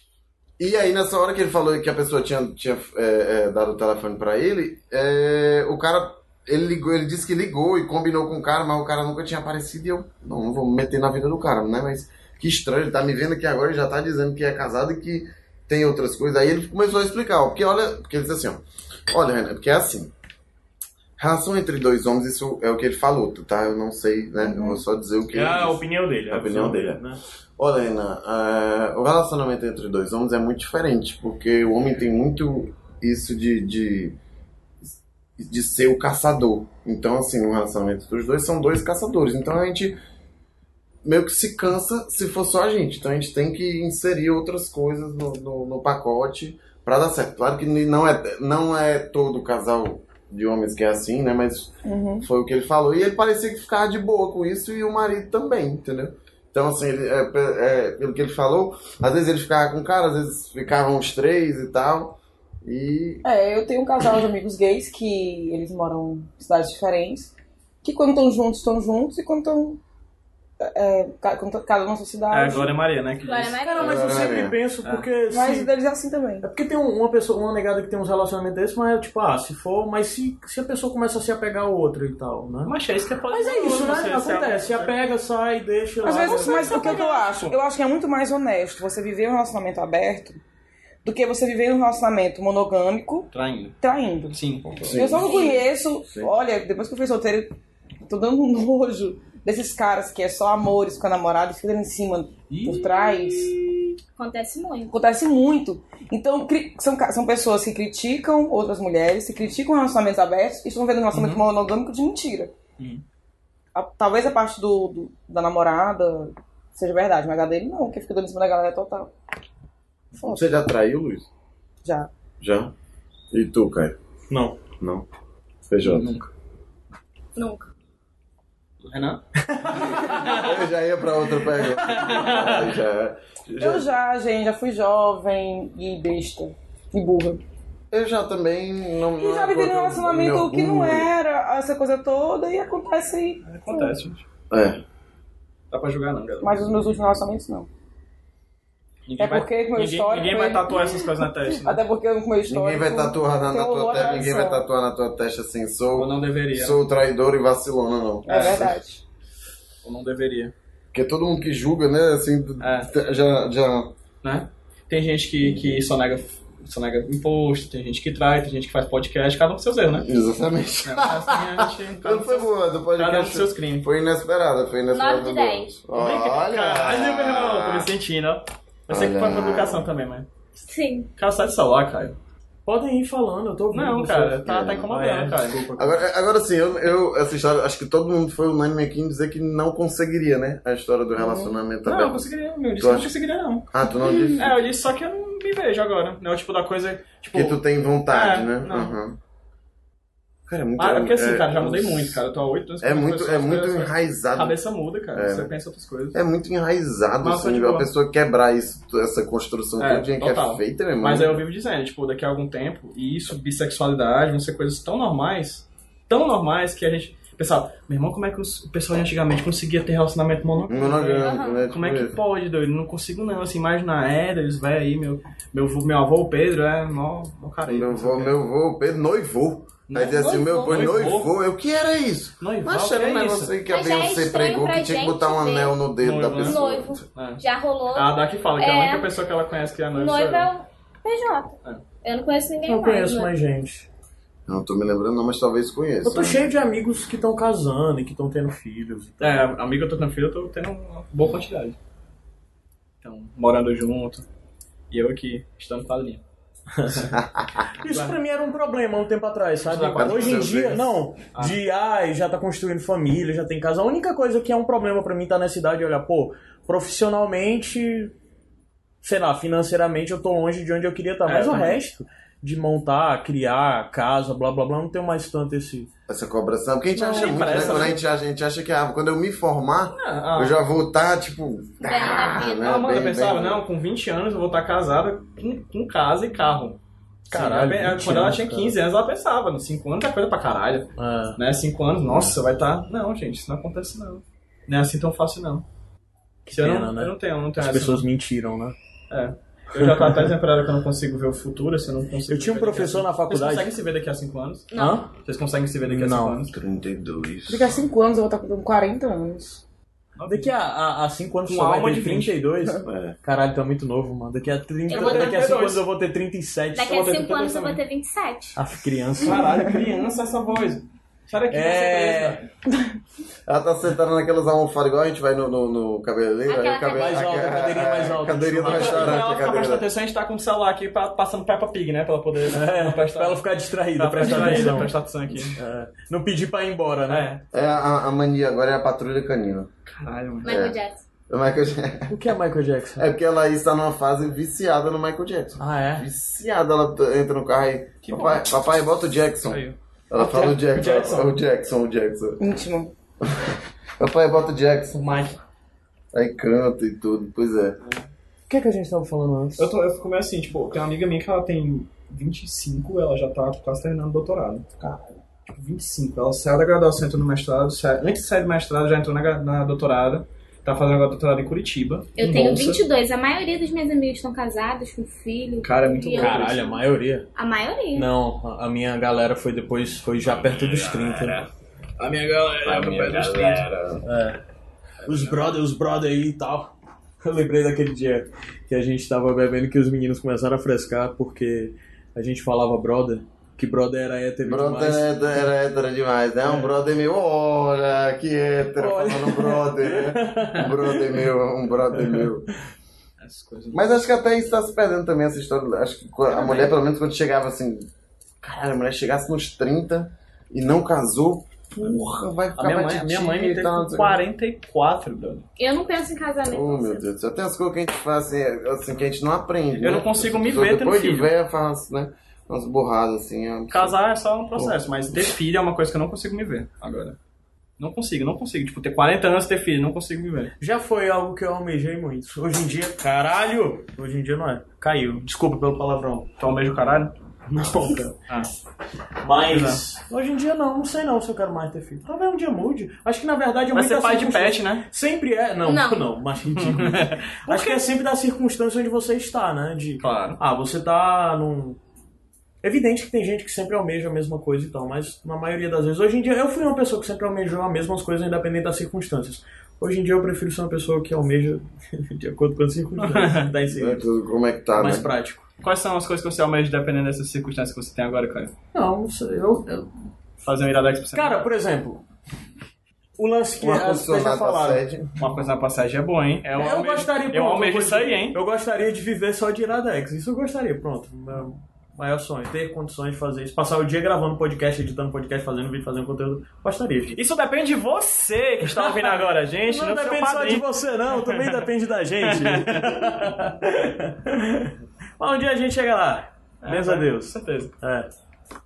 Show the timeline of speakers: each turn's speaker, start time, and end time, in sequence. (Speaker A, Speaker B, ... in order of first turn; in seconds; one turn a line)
Speaker A: 0.6-20.1
Speaker A: 21.2-34.2
Speaker B: 24.4-24.8
Speaker C: 25.3-27.2
Speaker A: 34.8-40.0
Speaker A: 41.0-63.2
Speaker B: 51.9-52.3
Speaker B: 63.2-67.3
Speaker B: 67.8-69.8
Speaker B: 70.6-72.7
Speaker D: 72.3-73.6
Speaker E: 73.2-74.3
Speaker C: 73.6-75.7
Speaker A: 73.8-74.6
Speaker D: 74.8-75.1
Speaker B: 75.3-76.5
Speaker C: 76.4-82.7
Speaker D: 82.7-85.0
Speaker C: 83.3-87.1
Speaker B: 86.0-90.4
Speaker D: 86.2-87.6
Speaker B: 91.0-93.3
Speaker D: 93.3-93.8
Speaker B: 93.8-97.5
Speaker D: 94.3-94.9
Speaker A: 94.8-95.4
Speaker E: 95.1-95.6
Speaker A: 96.0-96.3
Speaker B: 98.1-103.6
Speaker D: 102.5-103.6
Speaker E: 104.2-104.9
Speaker B: 104.9-112.5
Speaker D: 111.1-111.4
Speaker B: 113.8-119.1
Speaker B: 120.2-120.5
Speaker A: 120.2-121.3
Speaker A: 122.4-122.7
Speaker A: 123.3-124.0
Speaker C: 124.3-124.6
Speaker A: 124.8-125.1
Speaker A: 125.7-126.2
Speaker D: 125.8-126.3
Speaker E: 127.4-127.7
Speaker D: 128.8-129.2
Speaker A: 130.1-133.9
Speaker D: 131.8-132.7
Speaker B: 133.6-137.4
Speaker A: 137.9-141.1
Speaker B: 139.2-143.9
Speaker D: 143.4-144.3
Speaker A: 144.5-144.8
Speaker D: 145.7-146.6
Speaker B: 146.4-147.7
Speaker D: 149.1-151.8
Speaker B: 149.2-154.7
Speaker A: 152.5-158.8
Speaker D: 155.9-156.8
Speaker B: 158.2-159.0
Speaker D: 158.3-158.7
Speaker D: 159.8-160.5
Speaker A: 160.9-163.9
Speaker D: 162.6-162.9
Speaker D: 164.2-170.1
Speaker A: 169.9-177.9
Speaker D: 170.8-173.9
Speaker E: 174.9-175.7
Speaker D: 175.9-180.3
Speaker A: 178.9-179.9
Speaker E: 180.6-181.1
Speaker D: 181.2-182.2
Speaker C: 182.7-186.0
Speaker D: 183.7-185.6
Speaker A: 184.4-184.9
Speaker A: 185.8-193.1
Speaker B: 191.2-191.6
Speaker D: 191.8-193.7
Speaker A: 193.7-194.6
Speaker D: 194.4-199.0
Speaker A: 197.3-199.2
Speaker A: 200.5-202.2
Speaker D: 200.8-206.2
Speaker A: 202.8-204.6
Speaker A: 205.1-205.5
Speaker A: 206.1-211.4
Speaker D: 207.2-207.9
Speaker D: 209.8-228.4
Speaker A: 220.7-222.2
Speaker E: 221.2-221.7
Speaker A: 227.6-237.1
Speaker D: 229.9-231.3
Speaker E: 230.0-231.0
Speaker D: 232.4-233.6
Speaker E: 233.6-239.1
Speaker D: 236.0-237.4
Speaker D: 237.9-240.5
Speaker E: 239.9-243.3
Speaker C: 242.7-243.9
Speaker A: 244.5-246.5
Speaker C: 246.0-249.5
Speaker D: 249.2-251.8
Speaker D: 253.0-254.2
Speaker D: 254.9-256.2
Speaker C: 256.8-257.1
Speaker A: 257.1-257.6
Speaker C: 257.8-268.1
Speaker D: 257.9-258.2
Speaker D: 259.6-260.7
Speaker A: 260.0-261.0
Speaker D: 261.3-261.6
Speaker C: 269.0-275.9
Speaker D: 271.3-271.8
Speaker A: 276.1-283.6
Speaker C: 276.9-277.9
Speaker D: 277.0-278.0
Speaker D: 279.9-280.6
Speaker E: 281.8-282.7
Speaker D: 282.6-286.8
Speaker C: 287.3-288.8
Speaker D: 287.3-295.6
Speaker C: 291.0-291.4
Speaker C: 296.5-298.8
Speaker D: 296.5-298.1
Speaker D: 299.1-306.6
Speaker C: 299.8-300.3
Speaker C: 302.3-303.8
Speaker E: 304.7-305.1
Speaker C: 304.8-305.1
Speaker C: 305.8-306.4
Speaker A: 306.5-307.8
Speaker B: 307.5-309.6
Speaker D: 310.2-310.6
Speaker C: 310.3-317.4
Speaker D: 311.5-312.4
Speaker A: 312.8-313.2
Speaker E: 314.9-315.6
Speaker D: 314.9-315.9
Speaker E: 316.7-318.6
Speaker D: 316.8-317.8
Speaker C: 318.6-319.6
Speaker D: 319.2-322.5
Speaker C: 321.5-322.4
Speaker A: 323.5-329.9
Speaker E: 326.5-327.5
Speaker C: 326.9-329.3
Speaker D: 328.6-333.4
Speaker C: 332.5-335.1
Speaker D: 334.0-335.6
Speaker C: 335.6-337.3
Speaker D: 337.1-337.4
Speaker A: 337.5-339.7
Speaker D: 339.9-340.7
Speaker E: 340.4-341.0
Speaker A: 340.4-340.8
Speaker A: 341.3-342.2
Speaker C: 342.1-343.1
Speaker A: 343.0-352.4
Speaker C: 345.6-346.1
Speaker D: 348.0-348.6
Speaker D: 349.5-349.8
Speaker C: 350.4-351.3
Speaker D: 350.8-351.1
Speaker B: 352.4-352.9
Speaker A: 353.2-355.3
Speaker A: 356.1-357.8
Speaker C: 358.5-359.7
Speaker D: 359.6-364.7
Speaker D: 365.5-372.8
Speaker E: 372.2-376.8
Speaker D: 375.6-376.7
Speaker C: 376.2-377.3
Speaker E: 377.4-378.1
Speaker C: 377.9-381.4
Speaker D: 382.0-383.7
Speaker C: 382.7-384.4
Speaker C: 385.1-395.2
Speaker D: 385.1-385.5
Speaker A: 394.4-402.5
Speaker C: 398.8-401.0
Speaker C: 402.0-402.3
Speaker D: 403.2-403.8
Speaker A: 403.7-407.9
Speaker A: 408.4-414.2
Speaker D: 412.6-415.5
Speaker C: 412.6-414.1
Speaker E: 415.6-417.1
Speaker A: 416.5-424.0
Speaker D: 419.8-421.3
Speaker D: 423.7-427.2
Speaker D: 427.8-430.5
Speaker C: 430.6-436.3
Speaker D: 436.4-437.1
Speaker C: 437.5-438.1
Speaker D: 437.8-438.5
Speaker C: 439.2-451.8
Speaker D: 439.4-439.8
Speaker D: 443.7-444.9
Speaker E: 445.6-446.1
Speaker D: 446.6-447.2
Speaker E: 447.5-447.8
Speaker D: 450.0-450.4
Speaker C: 452.6-464.1
Speaker D: 463.0-463.5
Speaker A: 463.7-465.1
Speaker C: 464.8-465.5
Speaker D: 465.6-468.5
Speaker C: 468.7-469.9
Speaker D: 470.4-471.5
Speaker C: 471.1-472.0
Speaker C: 473.2-474.8
Speaker A: 473.6-475.1
Speaker D: 475.2-478.4
Speaker C: 476.6-487.2
Speaker D: 487.1-491.6
Speaker C: 488.6-498.1
Speaker D: 492.2-493.1
Speaker D: 496.6-497.7